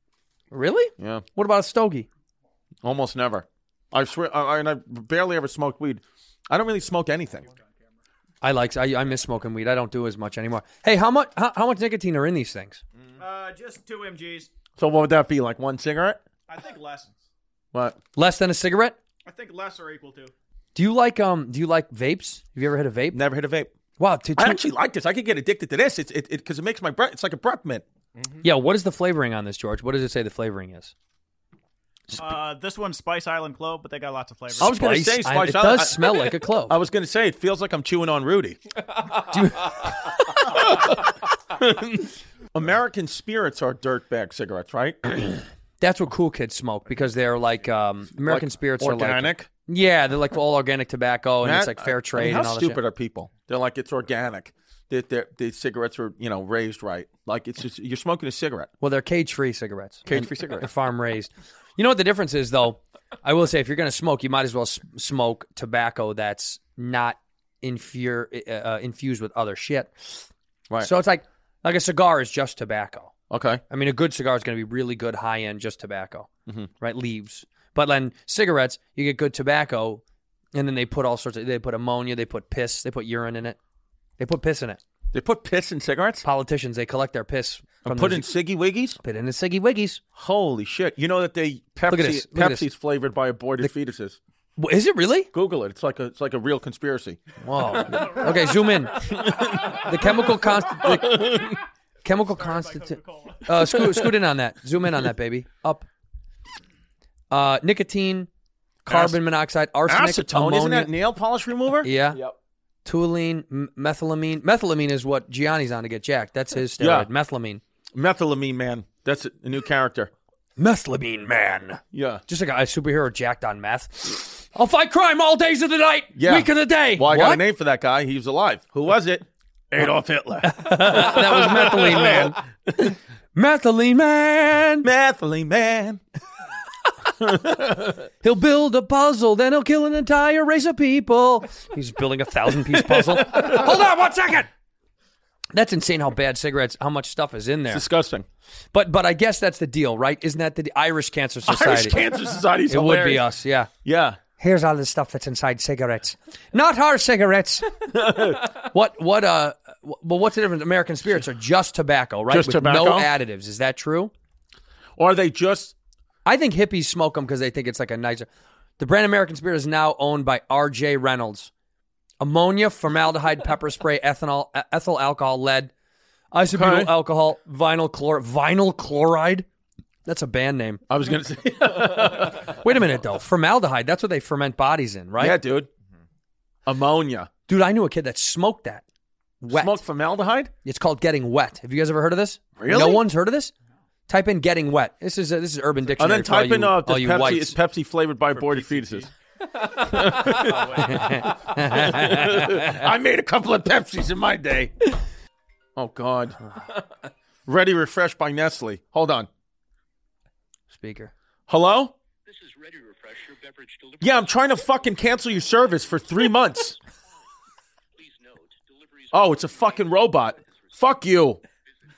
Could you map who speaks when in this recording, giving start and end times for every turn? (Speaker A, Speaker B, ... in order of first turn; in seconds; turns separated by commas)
Speaker A: 0.5-2.1, Speaker B: 1.0-1.3, Speaker B: 2.8-7.5, Speaker A: 8.4-12.8, Speaker C: 13.2-14.5, Speaker B: 14.8-16.2, Speaker C: 16.5-17.2, Speaker A: 18.1-19.0, Speaker C: 19.2-20.3, Speaker A: 20.8-23.2, Speaker B: 23.1-23.7, Speaker A: 24.0-24.6, Speaker B: 24.4-27.8, Speaker A: 28.4-30.9, Speaker C: 32.2-34.8, Speaker A: 34.6-36.8, Speaker B: 34.6-38.6, Speaker A: 39.3-39.9, Speaker B: 40.4-45.1, Speaker A: 45.8-52.8, Speaker B: 48.2-49.5, Speaker B: 51.4-58.7, Speaker A: 58.8-70.2, Speaker B: 60.1-60.6, Speaker A: 70.8-73.1, Speaker B: 73.3-73.6, Speaker A: 73.7-76.3, Speaker A: 76.8-80.0, Speaker A: 80.5-83.6, Speaker A: 84.2-84.8, Speaker B: 85.1-86.2, Speaker A: 86.2-88.3, Speaker B: 87.8-89.0, Speaker A: 89.0-90.0, Speaker B: 90.2-94.2, Speaker A: 91.9-92.7, Speaker A: 94.6-95.3, Speaker B: 95.3-97.2, Speaker A: 97.4-101.4, Speaker C: 98.3-98.8, Speaker B: 99.0-101.6, Speaker A: 102.0-105.9, Speaker C: 102.1-103.4, Speaker B: 103.7-104.0, Speaker A: 107.3-108.3, Speaker A: 108.8-110.9, Speaker B: 108.9-109.2, Speaker B: 109.9-111.9, Speaker A: 111.8-112.2, Speaker A: 112.9-117.6, Speaker B: 116.8-117.1, Speaker B: 117.9-120.1, Speaker A: 120.6-127.4, Speaker B: 121.9-122.2, Speaker B: 126.2-132.3, Speaker A: 130.4-134.9, Speaker B: 134.8-136.0, Speaker B: 137.2-138.1, Speaker A: 138.2-144.5, Speaker B: 142.7-143.6, Speaker A: 145.5-147.8, Speaker B: 147.7-148.3, Speaker A: 148.7-152.0, Speaker B: 151.5-153.3, Speaker A: 152.7-153.7, Speaker B: 153.8-154.2, Speaker A: 154.4-157.9, Speaker B: 157.9-158.4, Speaker A: 158.7-164.1, Speaker B: 162.3-163.1, Speaker B: 165.0-165.8, Speaker A: 166.2-168.3, Speaker A: 168.8-171.5, Speaker A: 172.2-175.7, Speaker A: 176.3-179.5, Speaker B: 176.5-176.9, Speaker A: 180.1-180.8, Speaker B: 180.9-182.6, Speaker A: 182.4-185.4, Speaker B: 185.2-185.7, Speaker B: 186.7-187.3, Speaker A: 187.5-188.8, Speaker A: 189.4-189.8, Speaker B: 189.5-190.5, Speaker A: 190.7-193.5, Speaker B: 192.6-193.1, Speaker A: 194.1-197.6, Speaker B: 196.0-199.1, Speaker B: 199.7-204.9, Speaker A: 200.7-202.8, Speaker B: 205.8-206.4, Speaker B: 207.5-209.3, Speaker A: 210.7-211.1, Speaker B: 211.5-211.9, Speaker B: 212.6-212.9, Speaker B: 213.9-216.8, Speaker B: 219.1-221.4